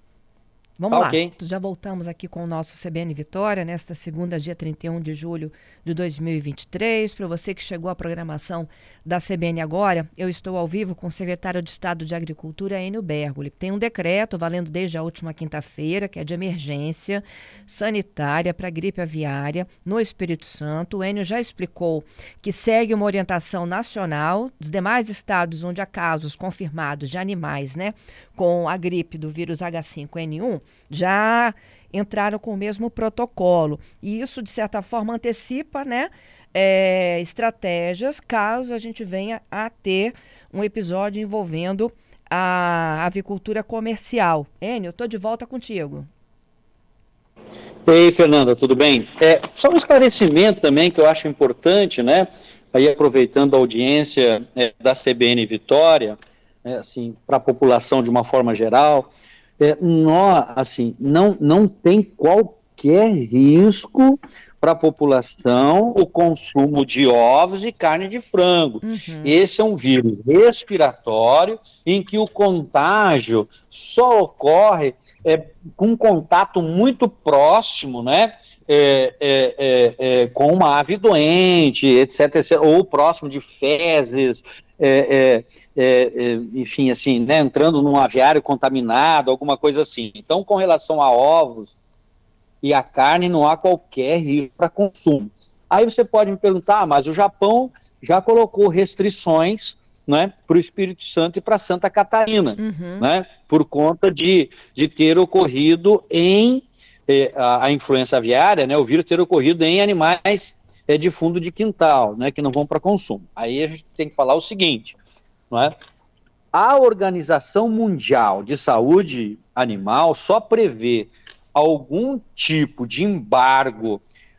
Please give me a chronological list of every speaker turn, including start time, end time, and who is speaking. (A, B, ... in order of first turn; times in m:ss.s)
0:00.8-0:46.1 A
0:00.9-0:01.3 B
0:47.9-1:31.7 B
1:08.8-1:09.3 A
1:32.6-1:55.0 B
1:42.6-1:43.1 A
1:56.5-2:04.0 B